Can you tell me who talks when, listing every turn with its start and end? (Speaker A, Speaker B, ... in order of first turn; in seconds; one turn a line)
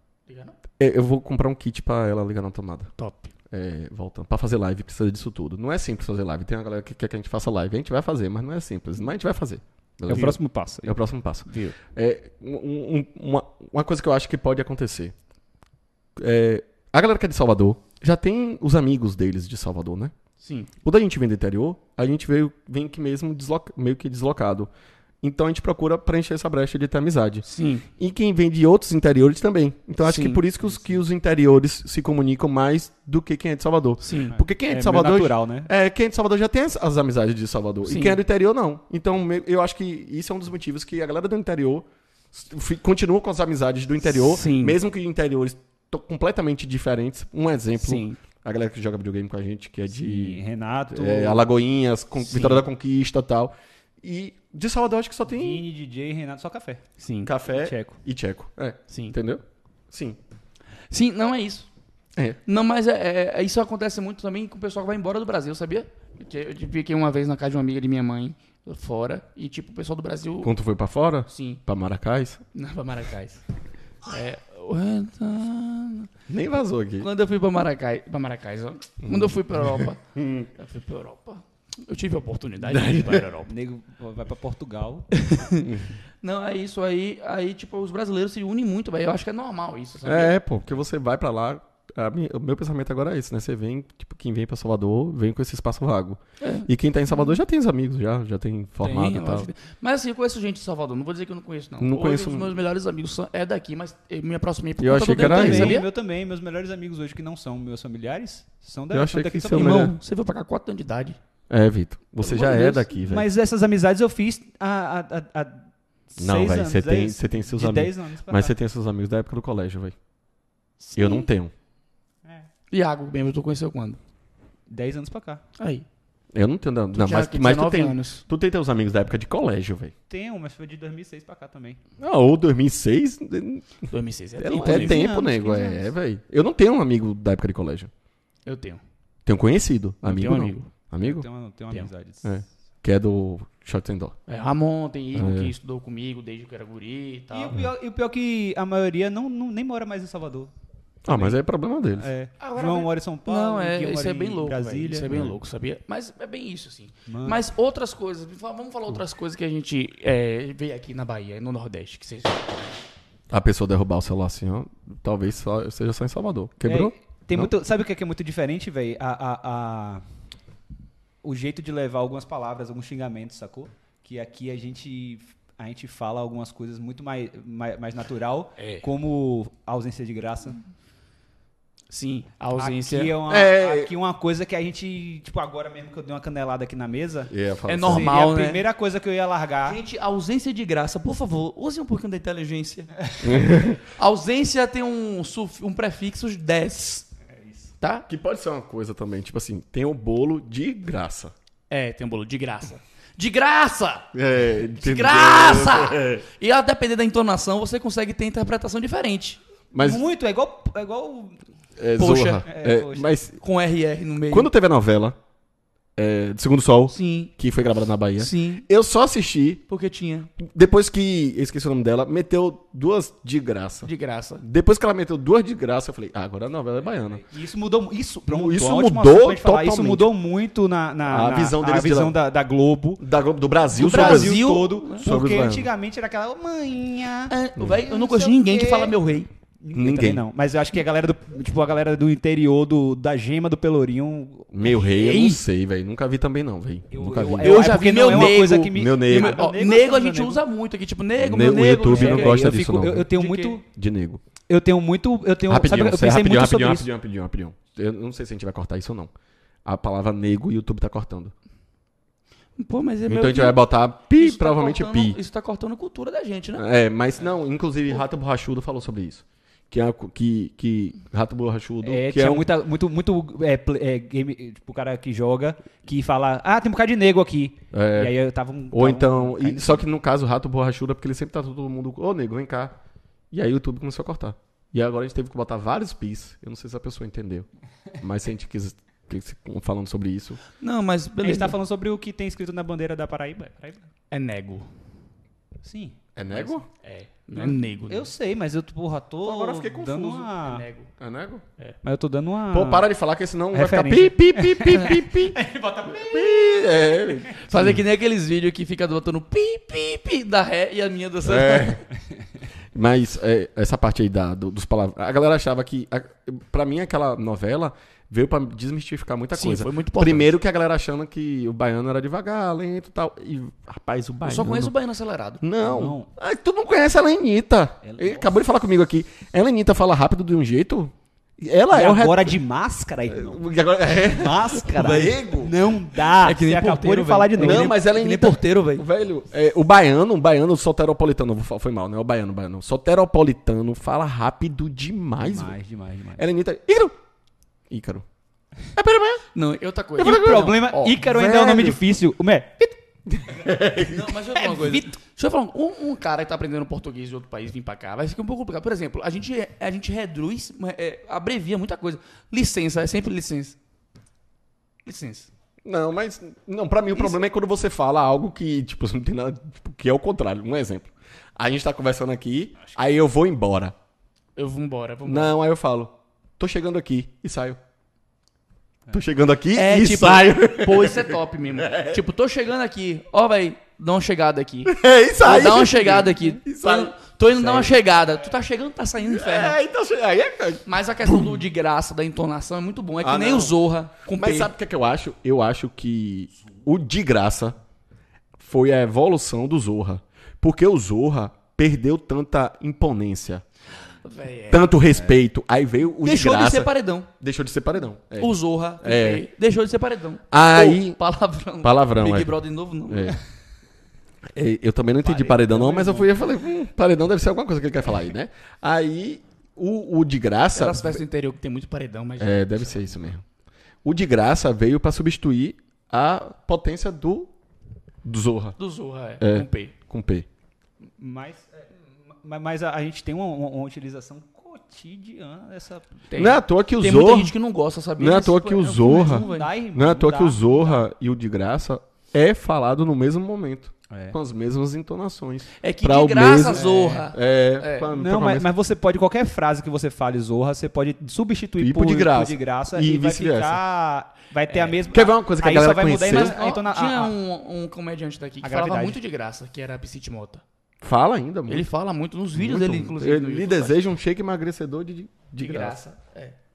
Speaker A: 0.3-0.6
Speaker B: 0.8-2.9
Speaker A: 3.0-3.3
Speaker B: 3.5-15.1
Speaker C: 10.1-10.9
Speaker A: 11.5-11.8
Speaker B: 16.2-20.1
Speaker A: 20.4-20.7
Speaker B: 20.8-24.7
Speaker B: 25.2-27.4
Speaker A: 27.4-27.9
Speaker B: 28.0-55.6
Speaker A: 30.0-30.4
Speaker C: 30.6-31.0
Speaker A: 34.0-34.4
Speaker C: 34.3-35.7
Speaker A: 37.9-38.2
Speaker A: 44.1-44.8
Speaker A: 47.8-48.2
Speaker C: 49.9-51.5
Speaker A: 52.2-52.6
Speaker C: 55.3-56.8
Speaker A: 57.0-57.3
Speaker B: 57.2-60.2
Speaker C: 57.5-58.0
Speaker A: 58.9-59.1
Speaker A: 60.9-61.7
Speaker A: 62.5-70.5
Speaker B: 70.4-72.4
Speaker A: 71.3-71.6
Speaker A: 72.5-73.4
Speaker A: 74.0-76.1
Speaker B: 76.3-77.1
Speaker A: 77.0-80.0
Speaker B: 79.0-80.5
Speaker A: 80.6-83.5
Speaker B: 82.6-83.2
Speaker C: 83.5-85.1
Speaker A: 85.1-85.7
Speaker B: 85.6-85.9
Speaker A: 86.2-90.4
Speaker B: 90.0-99.5
Speaker A: 96.4-97.4
Speaker A: 98.8-105.9
Speaker B: 101.8-102.5
Speaker B: 104.8-105.8
Speaker C: 105.1-109.9
Speaker B: 108.9-109.9
Speaker A: 109.5-111.2
Speaker B: 111.5-113.3
Speaker A: 112.2-112.9
Speaker C: 113.1-118.5
Speaker B: 116.2-119.9
Speaker A: 120.8-121.3
Speaker B: 121.0-121.5
Speaker A: 122.7-124.0
Speaker C: 124.7-125.4
Speaker A: 125.6-125.8
Speaker B: 126.3-129.9
Speaker A: 126.9-128.2
Speaker C: 130.1-131.8
Speaker B: 132.0-133.8
Speaker A: 133.9-135.0
Speaker B: 134.4-137.9
Speaker C: 134.5-135.8
Speaker A: 138.4-138.8
Speaker B: 139.2-141.2
Speaker A: 140.0-140.7
Speaker C: 141.0-142.3
Speaker B: 142.2-144.1
Speaker A: 144.3-147.6
Speaker B: 145.1-145.5
Speaker C: 147.3-150.5
Speaker B: 151.0-152.1
Speaker C: 151.1-151.4
Speaker C: 152.0-155.1
Speaker A: 152.4-162.6
Speaker B: 155.1-155.4
Speaker C: 157.1-157.4
Speaker B: 163.3-167.5
Speaker C: 166.6-170.0
Speaker C: 171.2-180.6
Speaker A: 178.6-178.8
Speaker A: 181.9-183.2
Speaker C: 182.6-187.3
Speaker B: 183.3-183.9
Speaker B: 187.3-188.1
Speaker A: 187.7-188.6
Speaker C: 187.8-189.8
Speaker A: 189.6-192.9
Speaker B: 193.2-193.8
Speaker A: 193.9-197.1
Speaker A: 197.8-198.1
Speaker B: 198.1-201.3
Speaker A: 201.7-204.1
Speaker B: 204.1-206.2
Speaker A: 204.8-209.4
Speaker B: 209.7-210.0
Speaker C: 209.8-211.4
Speaker B: 211.8-213.4
Speaker A: 212.0-212.4
Speaker C: 212.4-213.1
Speaker A: 213.4-214.5
Speaker B: 214.3-215.2
Speaker B: 216.0-219.6
Speaker A: 216.9-217.3
Speaker A: 218.2-218.6
Speaker A: 219.7-220.3
Speaker B: 220.4-227.2
Speaker A: 223.8-224.4
Speaker C: 227.1-233.0
Speaker B: 228.3-230.1
Speaker B: 231.1-232.2
Speaker B: 233.0-234.4
Speaker C: 233.7-238.9
Speaker A: 233.8-235.1
Speaker B: 235.0-235.7
Speaker A: 237.3-239.3
Speaker B: 237.6-237.8
Speaker C: 239.6-244.8
Speaker B: 239.7-240.2
Speaker B: 244.5-249.4
Speaker A: 244.8-245.4
Speaker C: 246.9-250.4
Speaker A: 247.4-252.6
Speaker B: 251.2-253.1
Speaker C: 251.8-253.6
Speaker A: 253.1-253.6
Speaker B: 253.7-254.2
Speaker C: 254.5-256.9
Speaker B: 255.5-259.1
Speaker B: 259.6-261.3
Speaker A: 262.6-266.6
Speaker B: 263.1-265.2
Speaker B: 266.6-272.5
Speaker C: 271.8-279.8
Speaker B: 277.7-278.1
Speaker B: 278.7-282.7
Speaker B: 283.3-287.5
Speaker B: 288.0-290.4
Speaker A: 290.6-291.6
Speaker C: 291.2-293.9
Speaker A: 294.1-294.7
Speaker C: 295.6-296.6
Speaker B: 296.1-296.6
Speaker A: 296.8-298.1
Speaker C: 297.4-300.6
Speaker B: 299.2-300.3
Speaker A: 300.4-300.9
Speaker B: 301.0-301.4
Speaker C: 301.8-302.9
Speaker B: 302.5-307.8
Speaker C: 303.5-306.4
Speaker A: 307.4-311.8
Speaker B: 311.2-311.8
Speaker B: 312.7-324.7
Speaker A: 319.3-320.3
Speaker A: 324.2-325.4
Speaker B: 325.4-332.4
Speaker C: 325.6-326.1
Speaker C: 327.8-328.3
Speaker C: 331.7-337.7
Speaker B: 333.1-335.6
Speaker A: 334.7-335.2
Speaker A: 336.2-338.8
Speaker B: 337.4-345.6
Speaker C: 345.2-346.2
Speaker B: 346.2-346.9
Speaker B: 347.7-348.0
Speaker B: 348.7-349.2
Speaker A: 349.3-351.0
Speaker B: 350.0-351.8
Speaker C: 350.0-352.8
Speaker B: 353.1-354.6
Speaker A: 353.9-363.6
Speaker C: 354.4-354.8
Speaker A: 364.8-365.3
Speaker B: 365.6-373.7
Speaker A: 374.4-375.3
Speaker B: 375.0-377.6
Speaker B: 378.9-382.0
Speaker A: 379.5-389.6
Speaker B: 384.6-386.9
Speaker C: 387.4-387.7
Speaker B: 389.0-391.3
Speaker A: 390.7-394.5
Speaker B: 393.0-393.6
Speaker B: 394.1-397.6
Speaker B: 398.4-403.4
Speaker A: 404.0-404.6
Speaker B: 404.5-409.2
Speaker A: 406.0-407.1
Speaker A: 408.2-413.1
Speaker B: 410.3-411.0
Speaker B: 411.6-412.3
Speaker B: 412.9-413.2
Speaker B: 414.3-421.0
Speaker C: 415.0-416.1
Speaker A: 420.5-423.0
Speaker B: 422.2-423.2
Speaker B: 423.8-427.3
Speaker B: 428.0-428.6
Speaker A: 428.6-429.7
Speaker B: 429.2-430.2
Speaker C: 431.0-435.9
Speaker A: 436.1-439.5
Speaker B: 436.2-437.3
Speaker B: 438.0-448.5
Speaker C: 438.8-440.9
Speaker C: 443.9-444.1
Speaker A: 445.6-447.9
Speaker C: 446.5-447.1
Speaker C: 447.9-457.1
Speaker B: 451.6-453.6
Speaker A: 454.5-454.8
Speaker B: 454.9-456.3
Speaker A: 456.0-460.4
Speaker C: 458.4-459.0
Speaker B: 460.8-461.7
Speaker A: 461.5-463.8
Speaker B: 462.4-465.9
Speaker A: 465.4-466.3